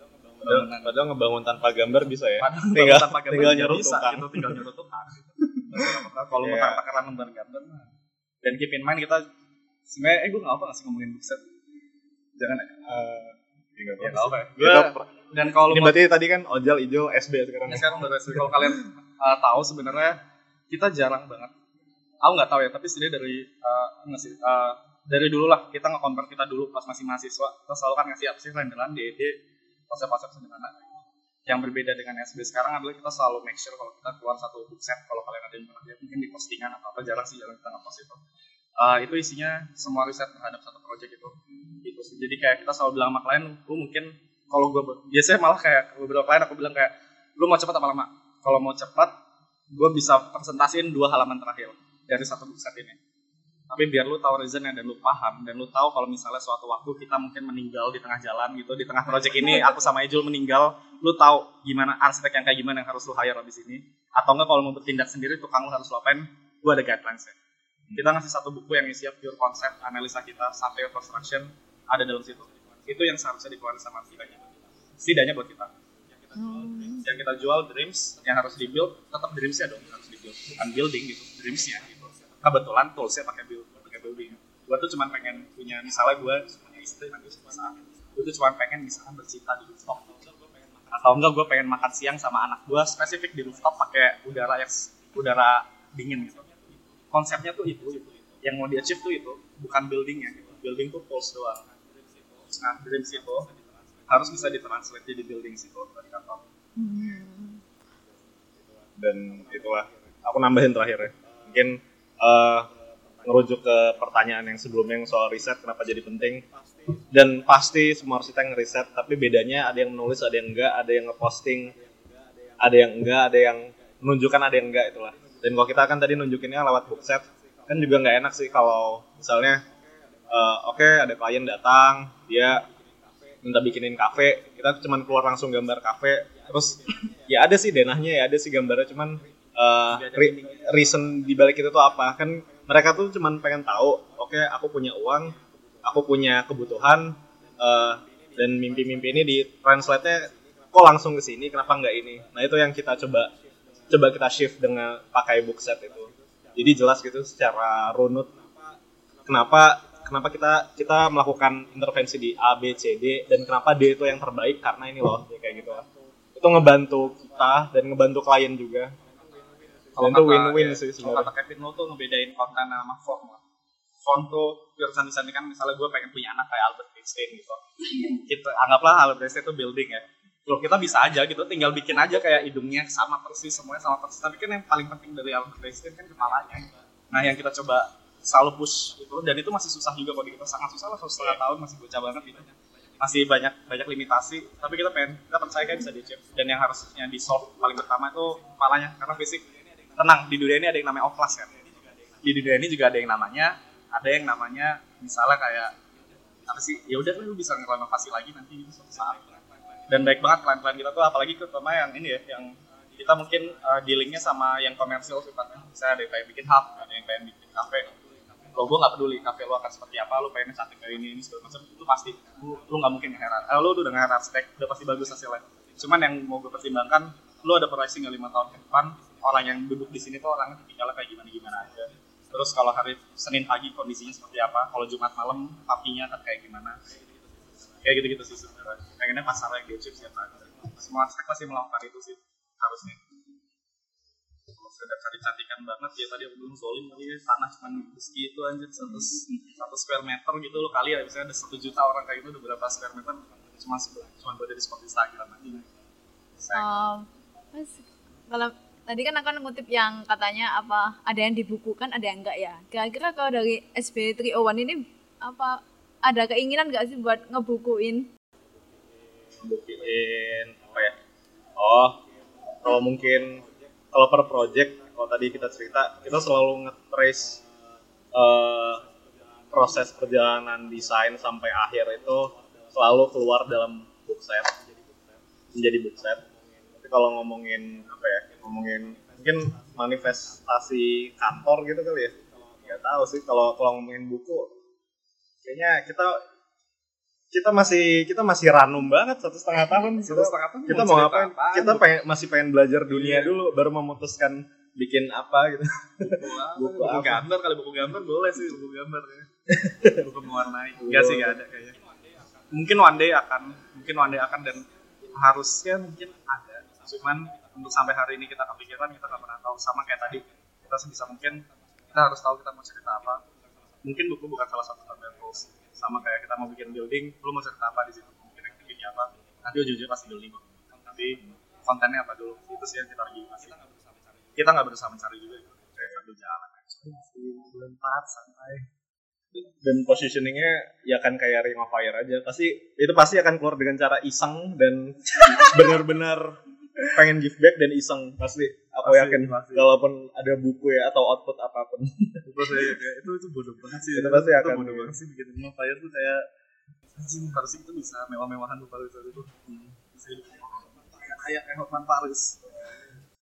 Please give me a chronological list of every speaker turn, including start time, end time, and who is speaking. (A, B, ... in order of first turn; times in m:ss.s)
0:00.4-0:00.9 A
0:00.4-0:04.6 B
0:02.4-0:07.9 A
0:05.8-0:06.8 B
0:08.4-0:09.3 A
0:09.9-0:11.4 A
0:12.4-0:12.8 A
0:12.9-0:15.0 B
0:14.0-0:16.0 A
0:15.7-0:18.7 B
0:17.7-0:20.2 A
0:20.7-0:21.5 A
0:22.2-0:29.4 A
0:29.9-0:30.8 A
0:31.5-0:38.2 A
0:38.8-0:49.1 A
0:49.7-0:53.0 A
0:53.7-1:07.4 A
1:07.9-1:14.4 A
1:15.0-1:15.7 A
1:16.4-1:17.0 C
1:17.0-1:30.2 A
1:30.9-1:36.5 A
1:37.1-1:41.6 A
1:42.5-1:43.5 A
1:44.1-1:46.4 A
1:46.8-1:47.6 C
1:49.0-1:52.7 B
1:53.2-2:01.8 B
2:02.6-2:09.6 B
2:10.3-2:12.7 B
2:13.4-2:33.3 B
2:19.9-2:20.8 A
2:33.9-2:38.3 B
2:39.3-2:49.0 B
2:50.0-2:53.4 A
2:50.0-2:51.3 B
2:54.0-3:12.5 A
3:13.0-3:19.4 A
3:20.0-3:21.6 A
3:22.2-3:25.7 A
3:26.5-3:29.3 A
3:29.9-3:37.9 A
3:38.6-3:56.8 A
3:57.8-4:03.0 A
4:04.6-4:15.7 A
4:16.4-4:16.7 A
4:16.6-4:28.1 C
4:29.4-4:30.9 B
4:31.6-4:32.0 B
4:32.6-4:37.4 B
4:38.1-4:38.8 B
4:39.5-4:44.5 B
4:45.5-4:46.2 B
4:46.8-4:54.5 B
4:55.4-4:56.2 B
4:57.3-5:07.3 B
5:00.0-5:01.8 A
5:02.9-5:03.3 A
5:06.0-5:09.3 A
5:09.5-5:10.1 B
5:09.9-5:11.8 A
5:10.8-5:11.4 B
5:12.5-5:23.2 A
5:23.8-5:33.6 A
5:34.4-5:38.7 A
5:39.3-5:46.4 B
5:46.9-5:52.2 B
5:48.8-5:49.7 A
5:52.2-5:56.3 A
5:53.9-5:55.0 B
5:57.0-6:02.8 A